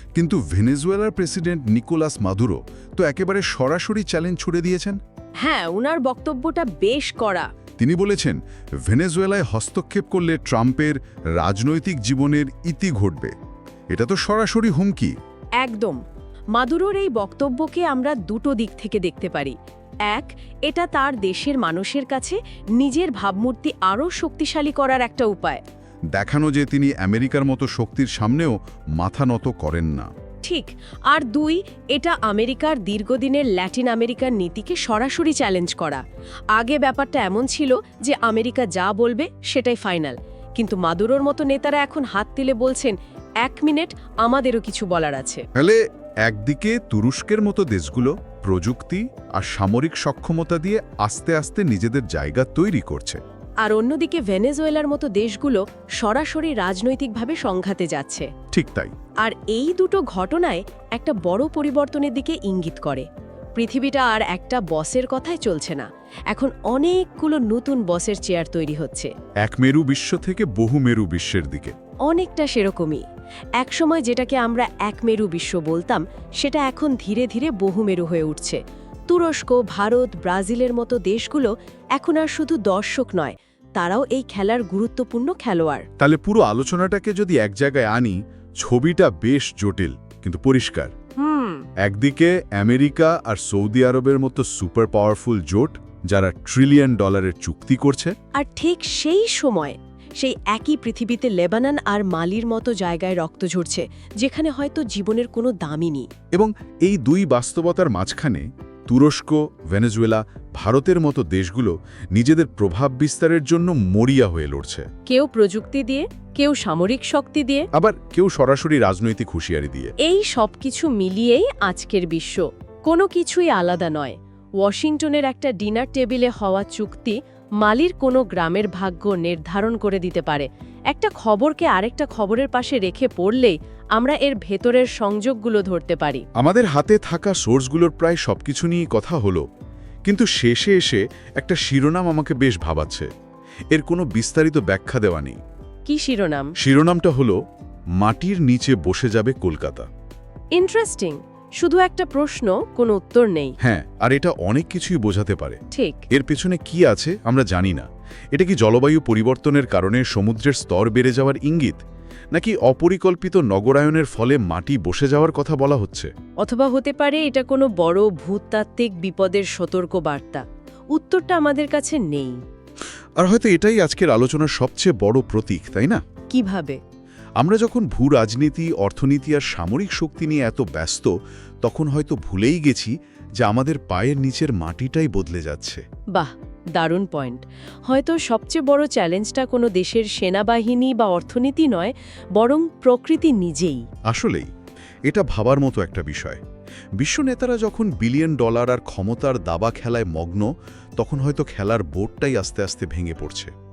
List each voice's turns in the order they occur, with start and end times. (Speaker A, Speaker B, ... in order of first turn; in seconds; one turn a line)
Speaker A: 0.1-5.0
Speaker B: 5.4-7.5
Speaker A: 7.8-13.3
Speaker A: 13.9-15.1
Speaker B: 15.6-16.0
Speaker B: 16.6-19.6
Speaker B: 20.1-25.6
Speaker A: 26.2-30.1
Speaker B: 30.4-36.0
Speaker B: 36.5-45.5
Speaker A: 45.6-53.2
Speaker B: 53.6-58.3
Speaker A: 58.5-58.9
Speaker B: 59.2-69.1
Speaker A: 69.4-71.8
Speaker B: 72.1-73.0
Speaker B: 73.6-85.9
Speaker A: 86.0-90.9
Speaker B: 91.2-91.7
Speaker A: 91.8-98.1
Speaker B: 98.4-106.1
Speaker A: 106.3-114.9
Speaker B: 115.1-117.7
Speaker A: 117.8-119.9
Speaker B: 120.0-136.2
Speaker A: 136.4-139.5
Speaker A: 140.1-143.1
Speaker A: 143.7-145.4
Speaker B: 145.9-146.5
Speaker A: 146.6-147.4
Speaker A: 148.0-149.9
Speaker B: 150.5-153.6
Speaker A: 153.6-155.6
Speaker B: 155.7-156.0
Speaker A: 156.1-161.8
Speaker A: 162.3-166.1
Speaker B: 166.4-172.4
Speaker A: 173.2-176.0
Speaker B: 176.3-176.8
Speaker A: 177.4-181.1
Speaker A: 181.6-185.8
Speaker B: 186.1-193.8
Speaker A: 194.1-194.5
Speaker A: 195.1-196.4
Speaker A: 197.0-203.5